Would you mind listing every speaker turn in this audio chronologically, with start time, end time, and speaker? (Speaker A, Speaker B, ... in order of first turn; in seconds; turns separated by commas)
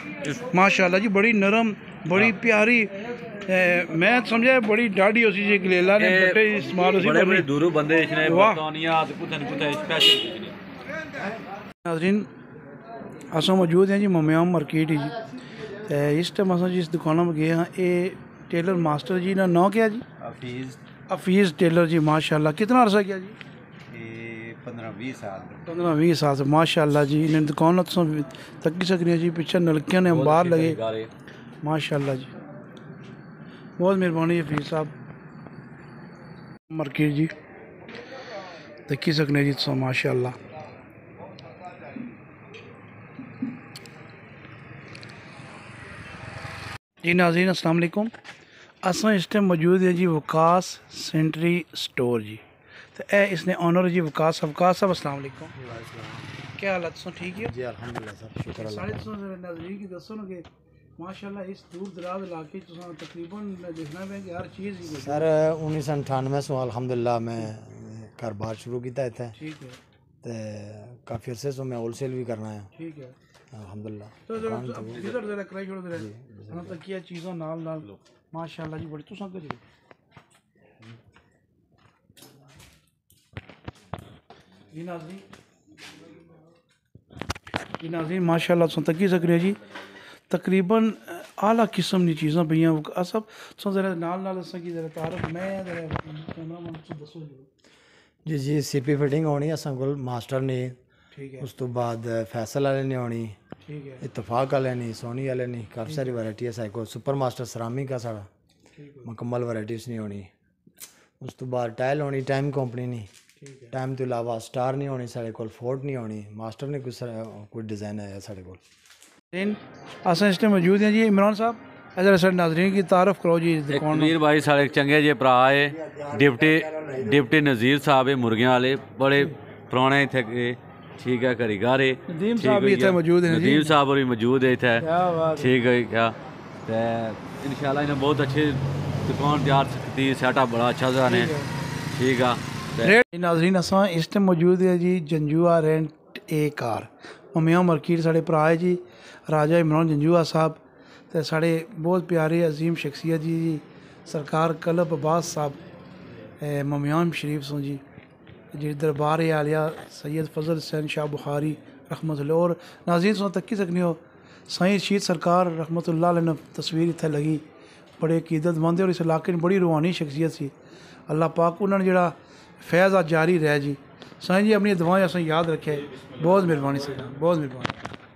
Speaker A: 0.5-7.5, Speaker B: 6.0-10.6, Speaker A: 8.2-8.6, Speaker A: 11.8-12.3, Speaker A: 13.3-15.1, Speaker A: 15.8-20.0, Speaker C: 20.3-20.8, Speaker A: 21.1-23.4, Speaker C: 24.0-25.5, Speaker A: 25.6-30.8, Speaker B: 30.1-31.1, Speaker A: 31.6-32.3, Speaker A: 33.8-34.9, Speaker A: 36.7-37.3, Speaker A: 38.9-40.4, Speaker A: 47.0-48.1, Speaker A: 48.8-52.4, Speaker A: 52.9-55.5, Speaker D: 55.6-56.3, Speaker A: 56.6-57.5, Speaker D: 57.4-59.0, Speaker A: 58.5-60.5, Speaker A: 61.0-65.3, Speaker D: 64.8-69.3, Speaker A: 69.3-69.8, Speaker D: 70.2-72.7, Speaker A: 72.7-73.1, Speaker D: 73.5-75.1, Speaker A: 74.3-79.6, Speaker D: 75.9-76.8, Speaker A: 84.7-85.2, Speaker A: 87.8-89.6, Speaker A: 90.3-97.5, Speaker D: 98.2-100.8, Speaker A: 101.1-101.5, Speaker D: 101.4-103.4, Speaker A: 103.6-104.0, Speaker D: 104.0-108.3, Speaker A: 105.8-106.2, Speaker A: 108.8-109.1, Speaker D: 109.0-110.3, Speaker D: 111.2-113.1, Speaker A: 113.4-113.7, Speaker D: 113.7-118.6, Speaker A: 119.3-124.2, Speaker B: 123.7-136.1, Speaker D: 125.8-127.1, Speaker A: 132.1-133.8, Speaker A: 134.8-135.5, Speaker B: 136.7-141.3, Speaker A: 141.1-141.5, Speaker B: 141.9-142.9, Speaker A: 142.8-155.6, Speaker A: 156.4-157.8, Speaker A: 158.5-167.4, Speaker A: 168.0-170.5, Speaker A: 171.1-177.8, Speaker B: 176.2-176.9